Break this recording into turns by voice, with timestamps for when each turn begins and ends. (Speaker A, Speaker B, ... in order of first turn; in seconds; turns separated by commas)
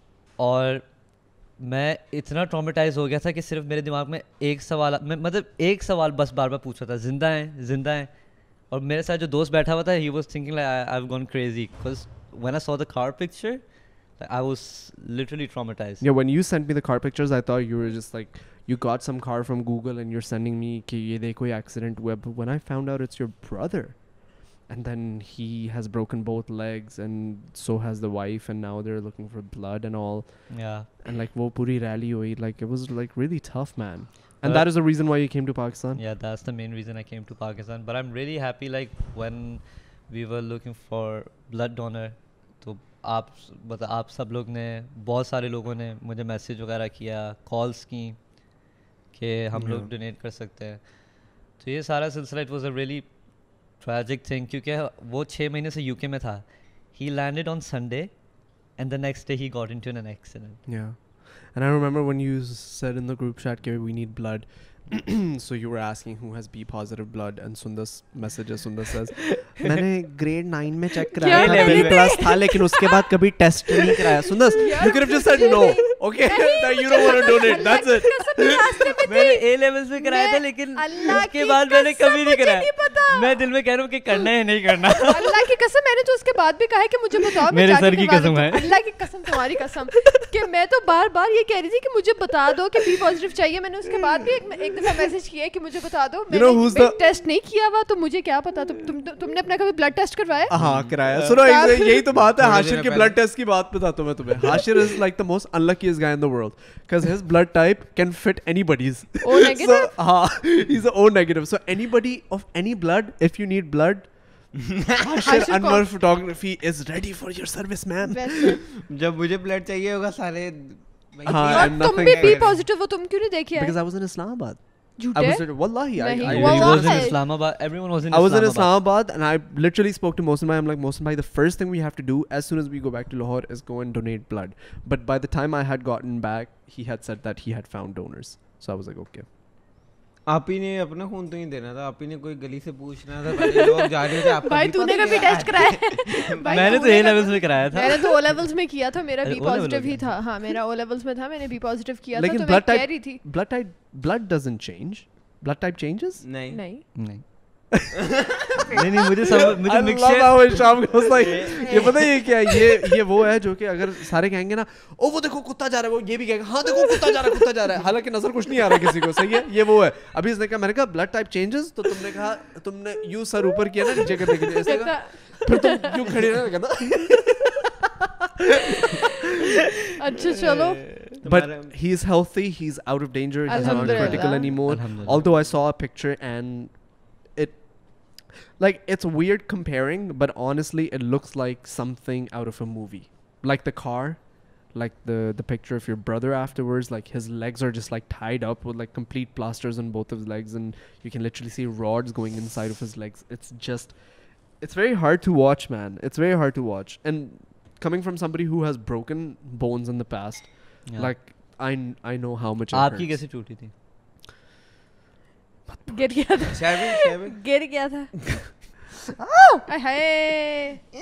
Speaker A: 0.4-16.0, Speaker B: 16.0-36.0, Speaker A: 30.5-30.9, Speaker A: 34.4-35.3, Speaker A: 35.9-60.6, Speaker B: 49.5-49.9, Speaker B: 60.6-78.5, Speaker C: 71.2-72.8, Speaker A: 71.3-72.2, Speaker C: 74.5-83.6, Speaker A: 79.0-85.5, Speaker C: 85.1-100.5, Speaker A: 87.4-89.3, Speaker B: 96.3-97.0, Speaker B: 100.5-118.3, Speaker D: 100.5-101.4, Speaker C: 101.4-102.0, Speaker D: 102.2-103.2, Speaker C: 109.2-110.0, Speaker C: 115.2-115.8, Speaker C: 118.0-118.6, Speaker D: 118.8-122.6, Speaker B: 121.2-122.5, Speaker C: 121.5-123.7, Speaker B: 123.5-139.3, Speaker C: 125.0-127.2, Speaker A: 126.2-128.8, Speaker D: 140.2-147.1, Speaker C: 143.5-153.2, Speaker A: 146.5-148.5, Speaker A: 149.2-150.4, Speaker B: 152.1-156.3, Speaker D: 156.2-156.6, Speaker C: 156.5-156.9, Speaker A: 156.9-157.7, Speaker A: 158.7-160.8, Speaker B: 159.6-177.5, Speaker D: 161.3-162.1, Speaker C: 174.7-176.0, Speaker C: 180.0-180.9, Speaker D: 181.2-181.8, Speaker B: 181.2-213.3, Speaker C: 183.5-184.6, Speaker A: 183.5-185.2, Speaker D: 185.1-185.5, Speaker A: 210.8-211.1, Speaker A: 212.7-213.7, Speaker B: 215.7-216.2, Speaker C: 215.9-218.2, Speaker D: 216.5-218.0, Speaker C: 219.7-220.9